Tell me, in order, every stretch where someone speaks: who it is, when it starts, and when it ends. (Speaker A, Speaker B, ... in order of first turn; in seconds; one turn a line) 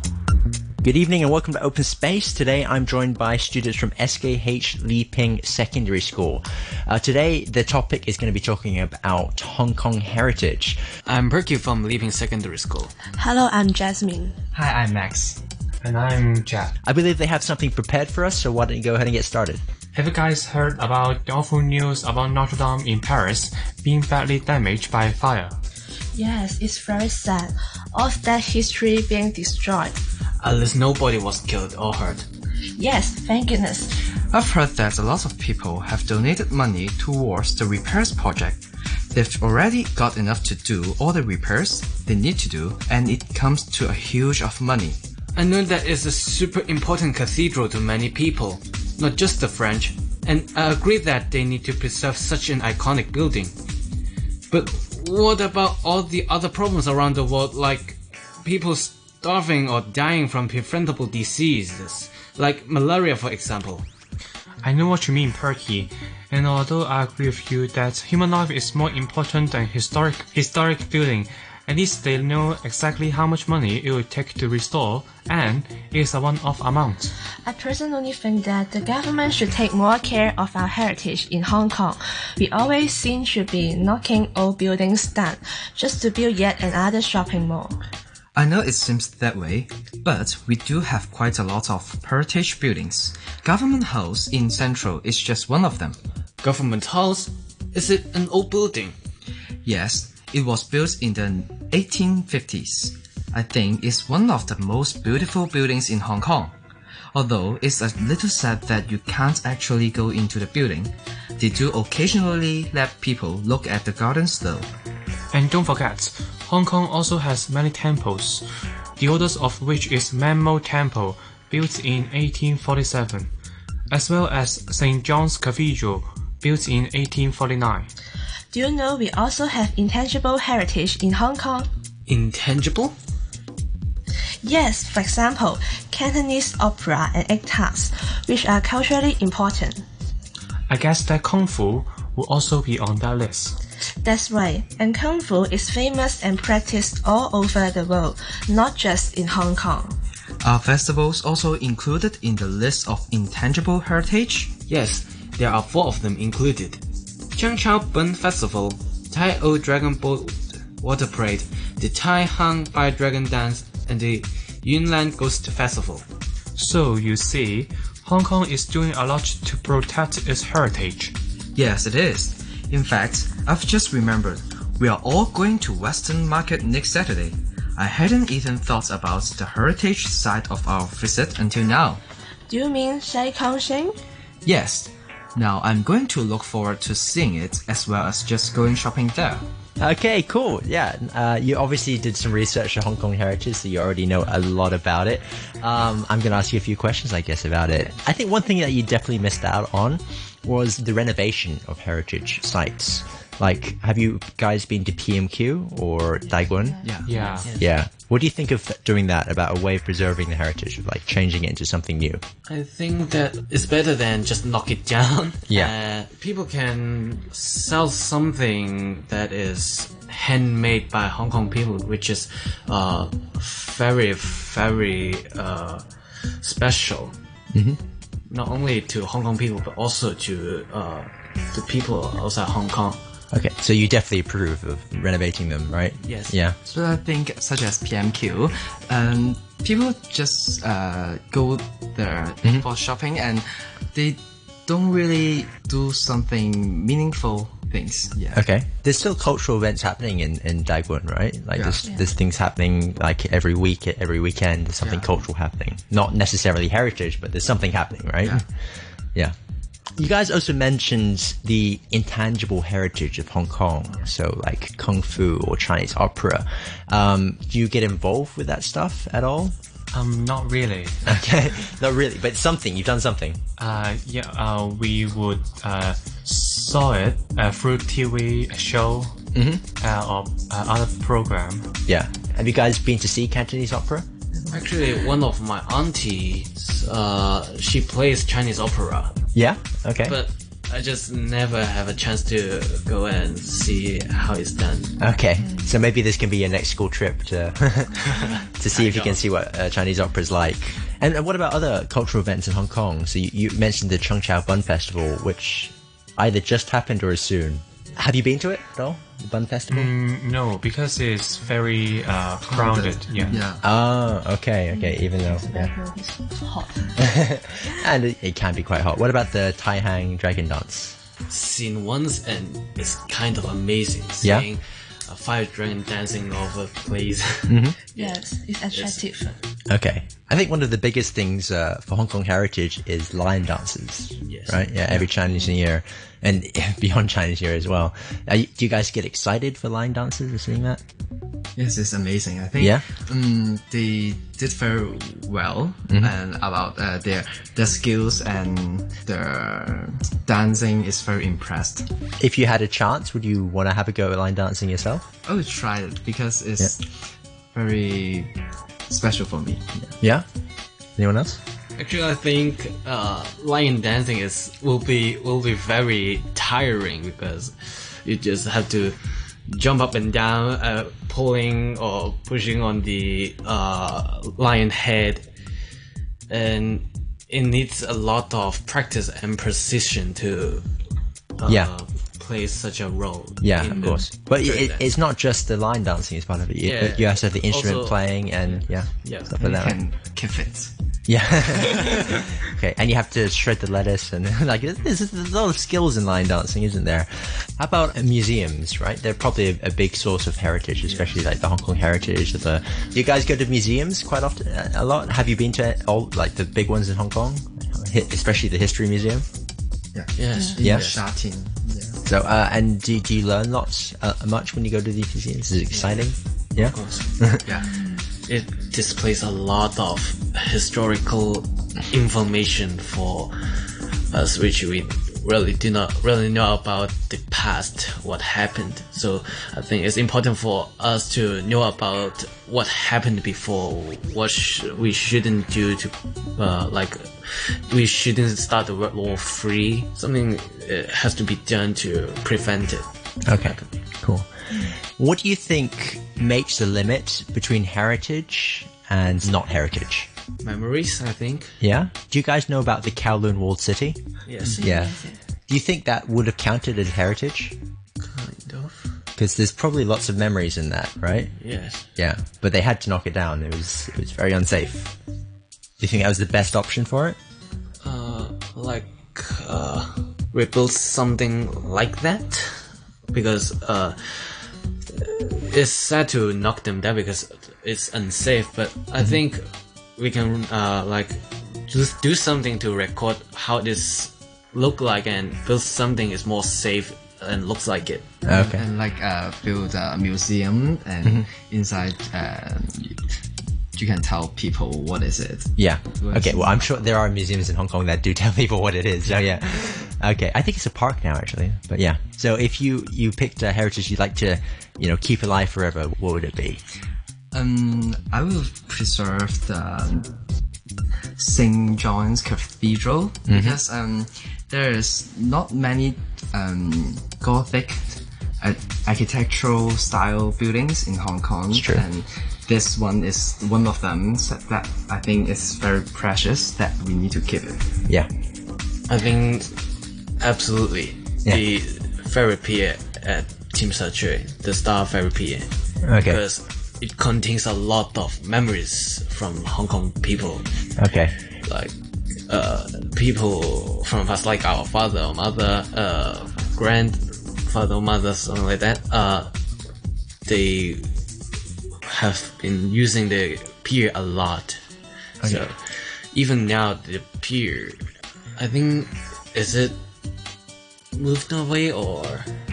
Speaker A: 0.8-10.8
Speaker B: 11.1-12.9
Speaker C: 13.2-14.3
Speaker D: 14.5-15.4
Speaker E: 15.8-16.8
Speaker A: 16.9-19.6
Speaker E: 19.9-25.6
Speaker C: 26.1-29.9
Speaker B: 30.4-32.3
Speaker C: 32.8-34.0
Speaker D: 34.3-38.6
Speaker D: 39.1-45.0
Speaker B: 45.3-53.5
Speaker B: 54.5-63.9
Speaker E: 64.6-77.1
Speaker C: 77.4-87.8
Speaker D: 88.3-96.0
Speaker B: 96.4-99.0
Speaker D: 99.6-106.5
Speaker D: 107.1-114.7
Speaker E: 115.3-118.4
Speaker E: 119.0-123.3
Speaker E: 123.9-127.9
Speaker C: 128.5-131.7
Speaker B: 132.1-132.9
Speaker C: 134.4-139.8
Speaker E: 140.7-143.6
Speaker C: 144.0-150.0
Speaker D: 150.4-154.5
Speaker B: 154.7-156.8
Speaker B: 157.3-166.1
Speaker E: 166.6-171.1
Speaker D: 171.5-182.0
Speaker C: 182.5-183.9
Speaker D: 184.4-189.4
Speaker A: 189.8-206.8
Speaker D: 206.8-207.1
Speaker E: 207.1-207.5
Speaker B: 207.2-207.7
Speaker A: 207.6-212.2
Speaker B: 212.4-225.8
Speaker B: 226.4-227.1
Speaker A: 227.5-227.8
Speaker B: 228.3-233.0
Speaker A: 233.3-236.6
Speaker B: 236.0-236.3
Speaker D: 236.7-248.4
Speaker A: 248.3-258.4
Speaker D: 251.6-251.8
Speaker D: 254.8-255.1
Speaker A: 260.0-269.5
Speaker E: 269.9-271.2
Speaker A: 271.1-273.4
Speaker E: 273.6-279.2
Speaker A: 279.3-279.6
Speaker E: 279.8-281.7
Speaker A: 281.9-284.1
Speaker B: 284.5-289.2
Speaker A: 289.3-290.2
Speaker B: 290.0-294.9
Speaker A: 295.0-309.9
Speaker B: 298.1-299.2
Speaker E: 309.7-313.4
Speaker D: 312.4-313.6
Speaker A: 313.6-315.7
Speaker C: 314.7-317.0
Speaker A: 317.0-321.0
Speaker B: 321.3-329.1
Speaker A: 327.5-327.8
Speaker C: 327.9-329.4
Speaker A: 329.7-340.8
Speaker B: 334.2-335.0
Speaker D: 341.6-351.9
Speaker A: 342.6-342.9
Speaker A: 352.2-355.1
Speaker D: 355.2-356.9
Speaker D: 357.5-358.3
Speaker D: 358.9-359.7
Speaker A: 360.0-360.2
Speaker A: 361.0-361.4
Speaker B: 361.8-368.9
Speaker B: 369.5-375.2
Speaker B: 376.3-380.7
Speaker B: 381.4-384.9
Speaker A: 381.4-381.7
Speaker A: 383.4-389.8
Speaker B: 386.6-389.3
Speaker D: 389.4-390.7
Speaker A: 391.1-409.2
Speaker D: 409.9-412.0
Speaker B: 410.1-411.0
Speaker A: 410.6-410.9
Speaker A: 412.0-417.4
Speaker B: 416.5-417.1
Speaker D: 417.4-417.7
Speaker B: 418.2-443.8
Speaker A: 443.2-450.1
Speaker B: 450.4-451.6
Speaker A: 451.6-454.0
Speaker B: 454.2-454.6
Speaker C: 454.5-455.2
Speaker A: 454.6-457.5
Speaker B: 458.0-458.9
Speaker A: 459.1-461.3
Speaker B: 461.4-461.9
Speaker A: 462.0-464.9
Speaker A: 465.8-467.2
Speaker B: 467.8-488.1
Speaker A: 488.2-488.6
Speaker D: 488.3-493.0
Speaker D: 493.7-496.6
Speaker A: 495.6-506.6
Speaker D: 507.3-510.1
Speaker D: 511.2-527.7
Speaker A: 513.3-513.6
Speaker A: 521.5-521.8
Speaker B: 528.9-529.5
Speaker B: 530.2-535.5
Speaker A: 535.8-536.2
Speaker B: 536.0-540.5
Speaker A: 540.8-541.1
Speaker B: 541.4-541.7
Speaker B: 542.3-549.3
Speaker B: 550.2-550.9
Speaker B: 551.8-554.6
Speaker A: 555.2-555.5
Speaker B: 555.2-557.8
Speaker B: 558.4-559.8
Speaker B: 560.9-562.3